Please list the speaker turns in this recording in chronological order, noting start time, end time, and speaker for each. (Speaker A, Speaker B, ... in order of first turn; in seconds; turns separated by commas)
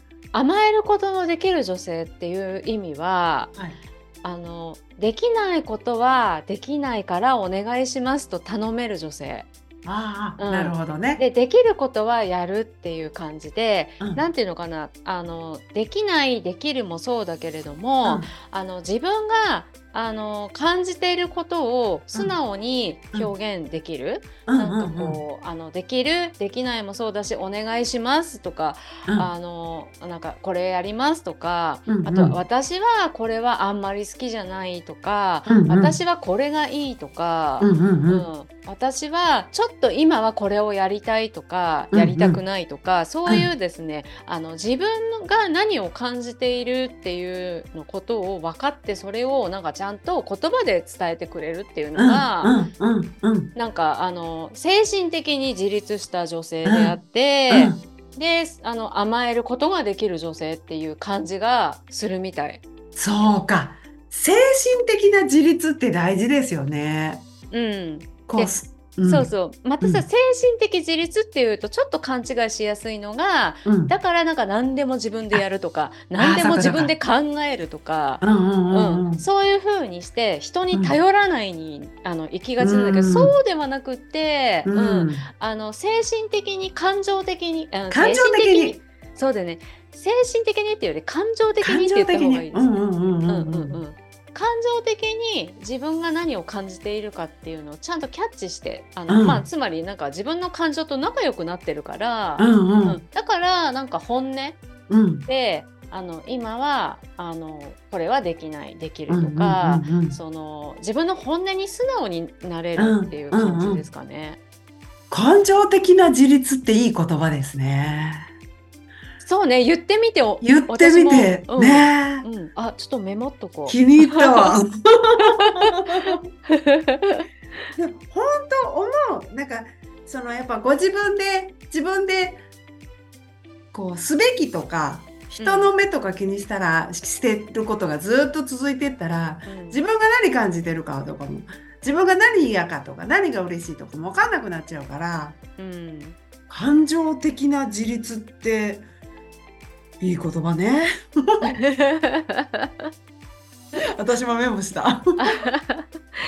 Speaker A: 0.3-3.5, Speaker A: 4.2-9.5, Speaker B: 9.8-11.2, Speaker A: 10.4-52.6, Speaker B: 14.0-14.2, Speaker B: 18.0-18.3, Speaker B: 24.5-25.2, Speaker B: 31.9-32.4, Speaker B: 35.5-36.0, Speaker B: 37.6-38.3, Speaker B: 41.9-42.4, Speaker B: 52.0-53.5, Speaker A: 53.5-62.6, Speaker B: 56.6-57.0, Speaker B: 57.5-57.8, Speaker B: 63.0-67.2, Speaker A: 67.5-92.6, Speaker B: 68.3-70.0, Speaker B: 73.7-73.9, Speaker B: 76.2-76.9, Speaker B: 78.2-79.2, Speaker B: 82.6-83.3, Speaker B: 84.7-85.3, Speaker B: 87.9-88.8, Speaker B: 91.6-93.8, Speaker A: 93.3-104.6, Speaker B: 99.1-99.4, Speaker B: 102.4-103.0, Speaker B: 104.9-105.3, Speaker A: 105.2-114.4, Speaker B: 109.1-110.2, Speaker B: 112.8-113.8, Speaker B: 115.1-118.3, Speaker A: 119.2-124.5, Speaker B: 120.4-122.3, Speaker B: 123.7-126.2, Speaker A: 125.2-127.3, Speaker B: 127.8-132.4, Speaker B: 133.7-145.4, Speaker A: 135.4-135.7, Speaker A: 139.5-139.8, Speaker A: 145.6-146.2, Speaker B: 146.5-148.8, Speaker B: 150.0-151.4, Speaker A: 151.4-152.9, Speaker B: 153.9-155.3, Speaker A: 155.2-155.9